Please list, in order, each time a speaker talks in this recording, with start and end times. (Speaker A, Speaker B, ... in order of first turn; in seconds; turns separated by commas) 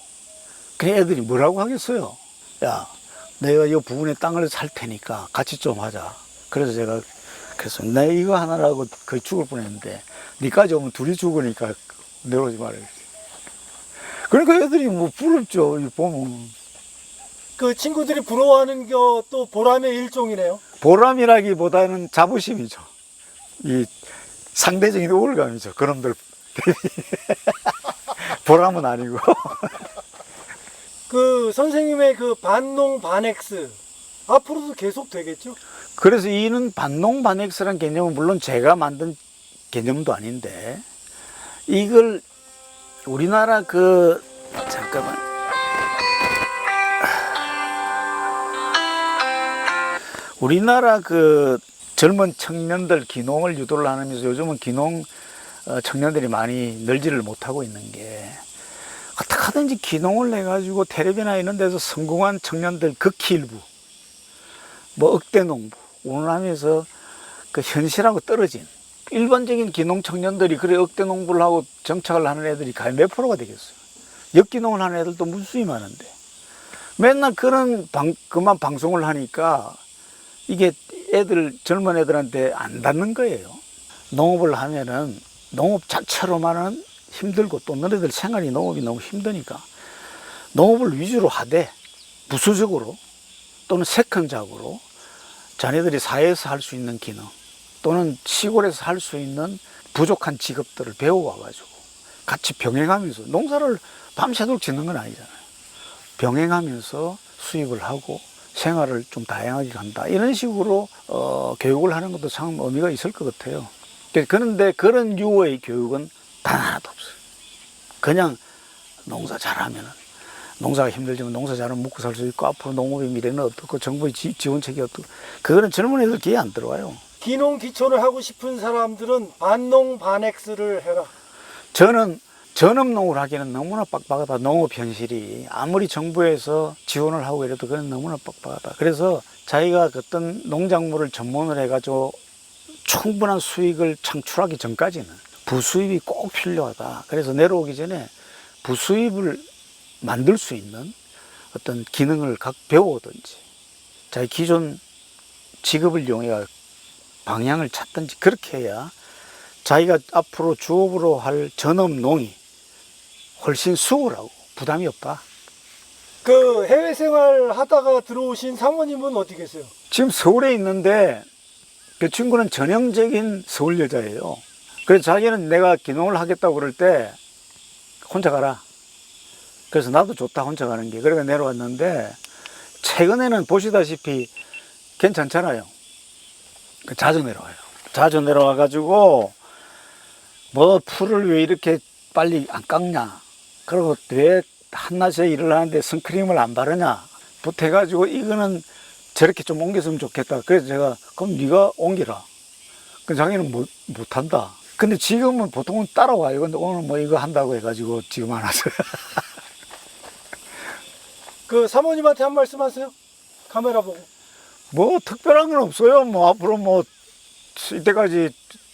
Speaker A: 0.8-12.9, Speaker A: 14.2-16.5, Speaker B: 17.6-20.6, Speaker A: 20.8-22.9, Speaker A: 23.6-23.9, Speaker A: 24.5-29.9, Speaker B: 31.1-33.8, Speaker B: 34.3-35.6, Speaker A: 36.0-39.2, Speaker A: 39.7-40.8, Speaker A: 41.7-42.2, Speaker A: 43.0-45.2, Speaker A: 50.4-55.1, Speaker A: 55.6-58.4, Speaker A: 59.2-63.6, Speaker A: 65.0-66.9, Speaker A: 67.5-73.7, Speaker A: 74.3-76.1, Speaker A: 77.0-79.8, Speaker A: 80.5-89.7, Speaker A: 90.5-91.7, Speaker A: 92.3-93.0, Speaker A: 93.7-94.8, Speaker A: 95.6-101.7, Speaker A: 102.2-105.4, Speaker A: 106.2-117.2, Speaker A: 118.0-118.4, Speaker A: 119.0-120.0, Speaker A: 120.6-127.0, Speaker B: 127.2-131.1, Speaker A: 131.7-142.2, Speaker A: 142.8-148.1, Speaker A: 148.6-149.4, Speaker A: 150.0-150.9, Speaker A: 151.5-153.4, Speaker A: 154.1-154.8, Speaker A: 155.6-156.5, Speaker A: 157.2-158.9, Speaker A: 159.6-162.4, Speaker A: 163.4-165.2, Speaker B: 166.2-169.7, Speaker A: 169.9-171.2, Speaker A: 172.0-177.2, Speaker A: 178.0-178.6, Speaker A: 179.7-182.2, Speaker A: 182.8-184.3, Speaker A: 185.0-185.7, Speaker A: 186.8-189.3, Speaker A: 190.5-202.2, Speaker A: 203.1-209.2, Speaker B: 211.5-212.9, Speaker B: 213.5-214.1, Speaker A: 214.7-216.9, Speaker A: 217.5-218.4